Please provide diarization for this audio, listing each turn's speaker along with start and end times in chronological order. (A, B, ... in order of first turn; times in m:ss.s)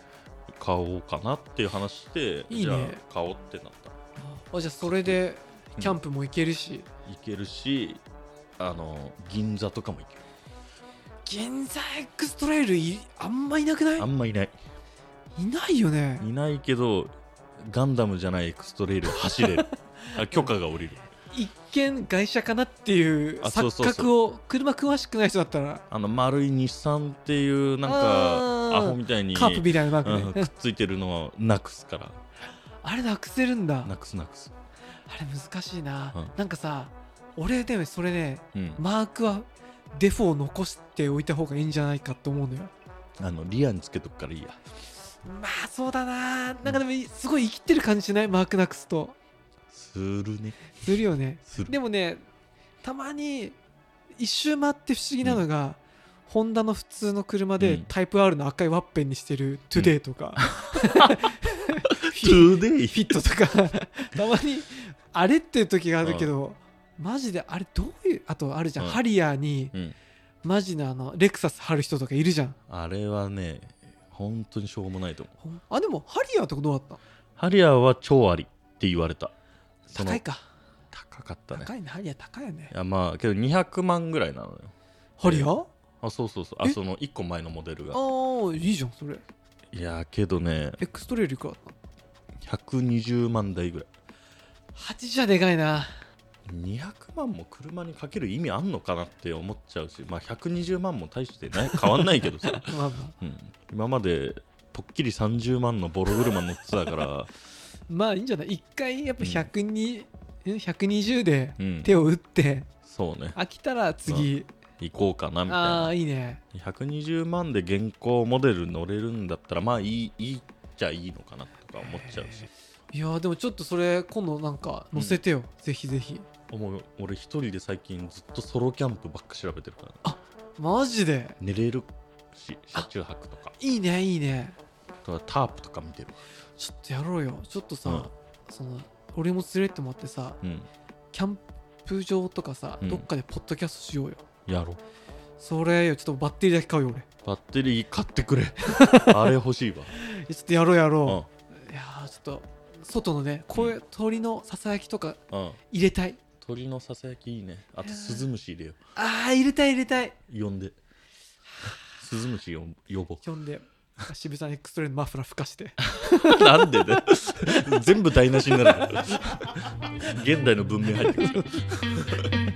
0:00.6-0:04.0 A
0:02.5-0:03.0 B
0:04.2-0:06.9 B
0:04.8-0:05.2 A
0:07.0-0:08.0 A
0:08.6-0:10.2 A
0:11.2-0:14.1 B
0:14.0-0:14.5 A
0:15.3-0:16.2 B
0:16.2-0:21.0 A
0:19.2-0:20.5 B
0:21.3-0:25.8 B
0:23.4-0:24.1 A
0:25.9-0:32.2 A
0:27.8-0:30.5 B
0:32.8-0:33.9 B
0:33.8-0:34.5 A
0:35.0-0:42.7 B
0:38.5-0:38.8 A
0:43.2-0:44.6 A
0:45.2-0:49.2 B
0:49.7-0:51.7 A
0:50.8-0:52.2 B
0:52.8-0:53.6 B
0:54.2-1:09.7 B
0:57.6-0:57.9 A
0:59.8-1:01.2 A
1:02.1-1:03.1 A
1:06.0-1:06.3 A
1:10.4-1:12.6 B
1:12.7-1:15.3 A
1:15.4-1:17.0 B
1:17.4-1:19.3 A
1:19.9-1:20.2 A
1:19.9-1:20.5 B
1:20.9-1:21.7 A
1:21.5-1:22.7 B
1:22.7-1:28.0 A
1:25.2-1:25.7 B
1:27.9-1:29.2 B
1:29.7-1:30.8 A
1:30.8-1:31.7 B
1:32.4-1:33.9 A
1:34.7-1:35.9 B
1:36.5-1:47.3 A
1:41.8-1:43.1 B
1:47.9-1:52.7 B
1:49.2-1:49.5 A
1:51.6-1:51.9 A
1:52.8-1:53.4 A
1:53.3-1:54.5 B
1:54.0-1:56.0 A
1:55.5-1:56.4 B
1:56.5-2:02.5 A
2:02.9-2:06.2 B
2:04.9-2:05.2 A
2:06.5-2:10.0 A
2:10.0-2:11.4 B
2:11.4-2:13.5 A
2:13.6-2:14.6 B
2:15.0-2:16.2 A
2:16.6-2:20.4 B
2:20.4-2:20.7 A
2:21.1-2:24.2 B
2:22.8-2:23.1 A
2:24.5-2:24.8 A
2:25.4-2:27.0 B
2:27.2-2:30.0 A
2:28.6-2:29.3 B
2:29.9-2:35.2 B
2:35.3-2:35.6 A
2:35.7-2:36.2 B
2:36.4-2:38.8 A
2:37.8-2:38.3 B
2:39.0-2:40.2 B
2:40.3-2:40.8 A
2:42.0-2:43.2 A
2:43.2-2:47.0 B
2:45.8-2:52.3 A